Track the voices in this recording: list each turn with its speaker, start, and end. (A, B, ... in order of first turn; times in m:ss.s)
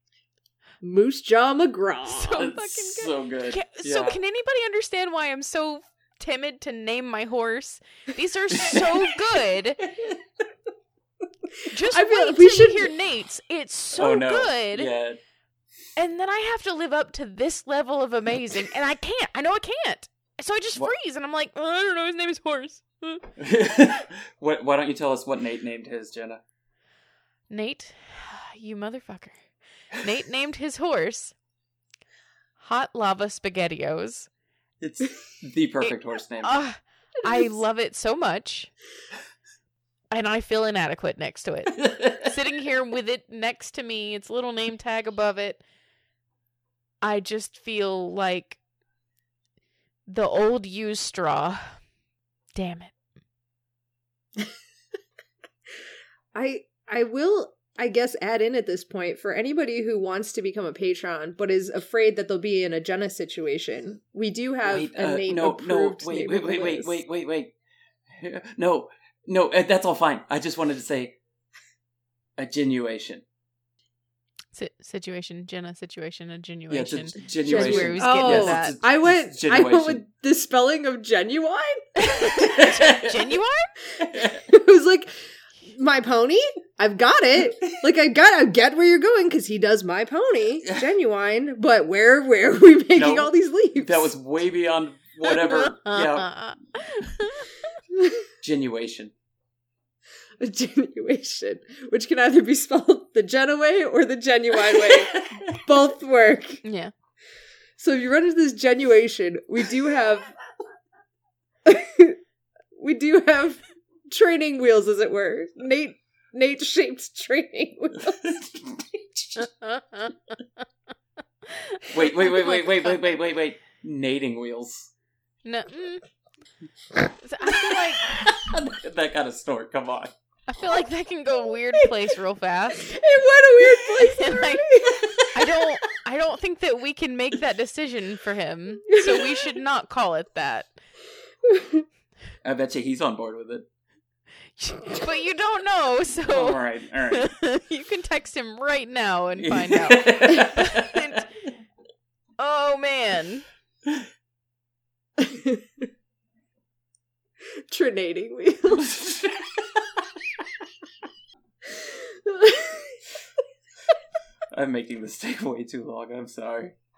0:00.8-0:02.4 A
0:02.1-0:09.9 B
0:02.3-0:04.2 C
0:11.7-0:14.9 B
0:11.9-0:12.9 A
0:13.9-0:15.2 C
0:16.0-0:23.2 B
0:23.4-0:26.4 C
0:27.5-0:29.4 B
0:30.0-0:31.3 B
0:32.6-0:34.3 B
0:34.8-0:36.5 C
0:35.8-0:38.7 B
0:40.1-0:45.6 B
0:41.8-0:42.3 C
0:47.0-0:48.6 B
0:50.1-0:51.8 B
0:52.6-0:52.9 B
0:56.3-1:07.0 A
1:04.6-1:07.5 C
1:08.1-1:11.2 C
1:12.4-1:13.2 C
1:14.5-1:18.8 B
1:16.7-1:20.0 C
1:17.5-1:22.3 A
1:22.1-1:23.7 B
1:22.6-1:23.3 C
1:24.0-1:24.5 C
1:24.5-1:25.1 A
1:25.7-1:34.1 A
1:30.6-1:30.9 C
1:33.0-1:36.4 C
1:35.3-1:37.5 B
1:38.0-1:38.2 A
1:38.4-1:39.1 C
1:40.4-1:46.6 A
1:44.7-1:45.0 C
1:46.6-1:46.9 B
1:47.8-1:50.3 A
1:51.7-1:52.2 A
1:52.8-1:58.2 A
1:58.1-1:58.7 C
1:59.4-2:00.2 B
2:01.5-2:03.1 B
2:01.9-2:04.9 C
2:05.4-2:06.0 B
2:07.2-2:08.2 B
2:08.1-2:10.1 C
2:10.5-2:13.0 B
2:12.8-2:15.3 A
2:14.0-2:20.7 B
2:18.9-2:19.4 A
2:21.5-2:21.8 A
2:22.4-2:23.7 C
2:24.6-2:31.3 B
2:26.3-2:27.3 C
2:29.4-2:31.2 C
2:32.4-2:33.5 B
2:35.2-2:35.9 A
2:37.7-2:39.0 A
2:38.8-2:39.3 C
2:41.7-2:43.0 A
2:44.5-2:46.8 C